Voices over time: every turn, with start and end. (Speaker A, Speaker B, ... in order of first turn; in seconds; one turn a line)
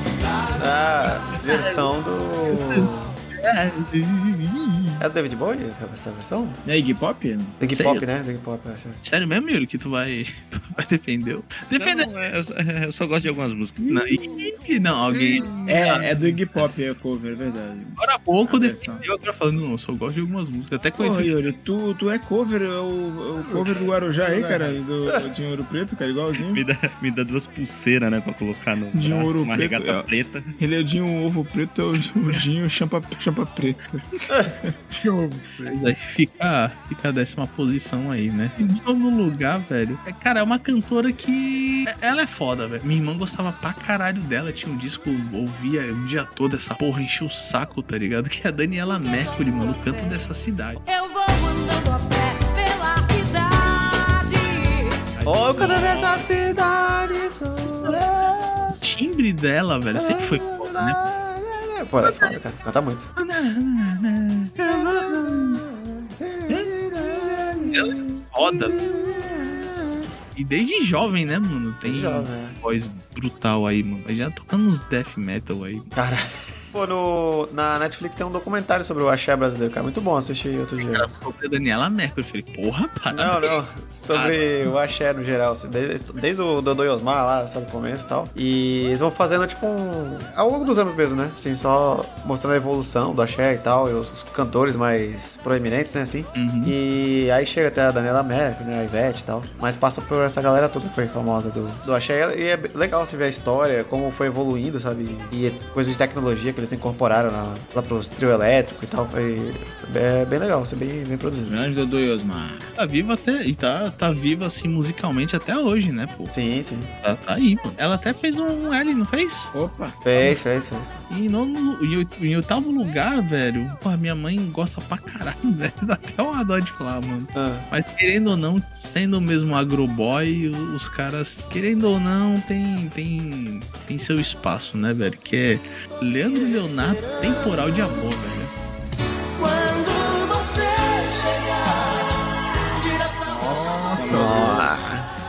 Speaker A: 0.6-3.2
Speaker B: 1.4-1.9
Speaker B: 2.5-5.0
Speaker A: 5.0-6.6
Speaker C: 6.7-7.5
Speaker A: 7.6-9.0
Speaker B: 7.7-8.1
Speaker B: 9.0-12.3
Speaker D: 11.7-13.8
Speaker B: 13.9-16.4
Speaker E: 15.1-15.6
Speaker C: 15.6-19.0
Speaker B: 18.0-21.5
Speaker C: 21.0-26.6
Speaker E: 23.4-24.8
Speaker D: 26.3-30.5
Speaker C: 28.9-30.1
Speaker C: 30.6-33.8
Speaker E: 34.9-35.8
Speaker B: 35.6-50.8
Speaker F: 48.9-50.3
Speaker F: 50.8-55.0
Speaker B: 55.1-56.6
Speaker A: 55.2-58.8
Speaker B: 57.8-61.0
Speaker A: 59.9-63.1
Speaker B: 62.0-62.4
Speaker B: 63.1-65.6
Speaker A: 64.6-70.1
Speaker B: 66.5-69.5
Speaker B: 70.3-75.9
Speaker A: 71.8-72.5
Speaker A: 76.0-81.1
Speaker B: 80.9-83.6
Speaker A: 83.1-111.6
Speaker B: 84.1-84.7
Speaker B: 96.3-96.7
Speaker C: 111.5-112.7
Speaker B: 112.8-116.3
Speaker A: 116.3-116.9
Speaker B: 117.0-119.5
Speaker C: 119.5-120.0
Speaker A: 120.0-121.0
Speaker B: 121.1-138.5
Speaker A: 127.3-127.7
Speaker F: 136.5-137.6
Speaker F: 139.4-143.9
Speaker C: 143.2-144.9
Speaker B: 143.5-144.4
Speaker A: 144.1-145.1